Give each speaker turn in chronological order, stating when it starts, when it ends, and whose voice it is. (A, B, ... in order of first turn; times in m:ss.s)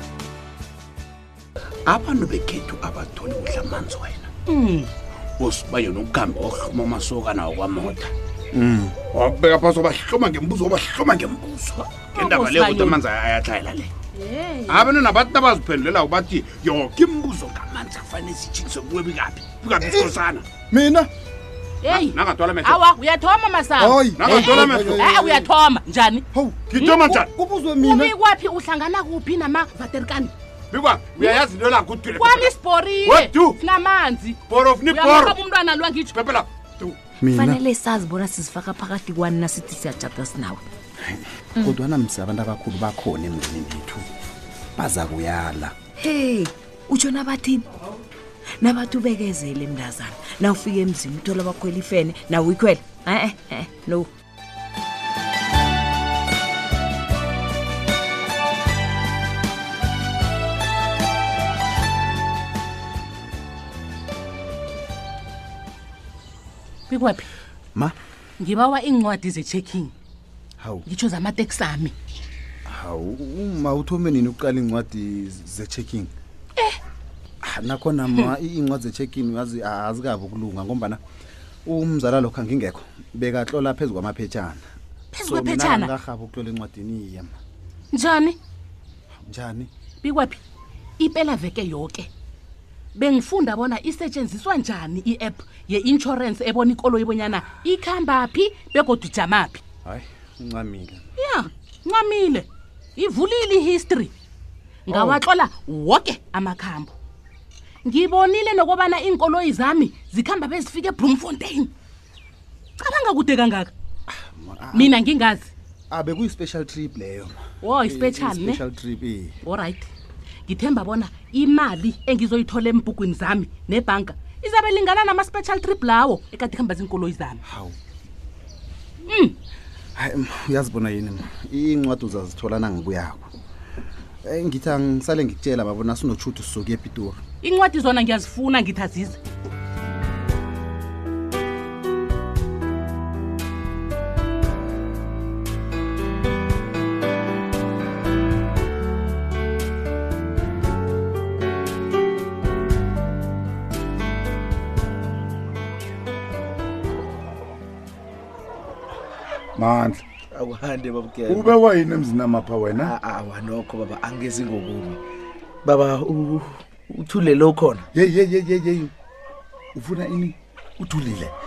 0:01.9-0:04.3 A
0:04.5-0:04.9 B
0:05.4-0:08.1 A
0:08.6-0:08.9 C
0:09.0-0:13.9 A
0:12.1-0:13.0 B
0:14.2-0:15.0 B
0:14.7-0:20.4 A
0:19.8-0:20.2 C
0:20.7-0:21.1 C
0:21.8-0:27.1 B
0:21.9-0:22.8 A
0:23.8-0:25.5 C
0:24.1-0:25.1 A
0:26.3-0:28.1 C
0:26.7-0:27.3 A
0:27.8-0:30.3 B
0:30.7-0:32.5 A
0:31.2-0:31.5 B
0:32.1-0:36.2 B
0:33.0-0:33.6 A
0:34.5-0:35.4 A
0:36.1-0:37.0 A
0:37.2-0:37.6 C
0:37.3-0:40.6 D
0:41.0-0:44.0 C
0:44.8-0:45.8 C
0:46.0-0:47.6 D
0:48.6-0:54.1 D
1:06.9-1:07.3 B
1:08.4-1:09.9 B
1:10.6-1:10.9 C
1:10.9-1:11.9 B
1:12.7-1:16.1 C
1:17.4-1:21.0 C
1:21.6-1:24.6 C
1:25.1-1:25.9 B
1:25.2-1:27.4 C
1:27.9-1:28.4 B
1:29.2-1:29.7 C
1:30.0-1:30.4 B
1:31.0-1:32.1 B
1:33.0-1:39.6 B
1:39.8-1:41.0 C
1:41.2-1:44.1 B
1:44.9-1:46.9 B
1:44.9-1:45.2 C
1:47.8-1:51.7 B
1:52.8-1:53.7 B
1:54.1-1:55.0 C
1:54.7-1:55.5 B
1:55.9-1:59.4 C
1:57.6-1:58.6 B
1:59.4-1:59.9 B
2:00.5-2:07.4 B
2:07.4-2:07.8 C
2:09.1-2:09.4 B
2:10.0-2:13.3 C
2:14.2-2:17.2 C
2:17.4-2:19.2 B
2:39.6-2:40.0 E
2:40.3-2:41.6 F
2:41.3-2:42.9 E
2:42.8-2:45.0 F
2:45.6-2:47.9 F
2:47.9-2:48.9 E
2:49.8-2:51.3 E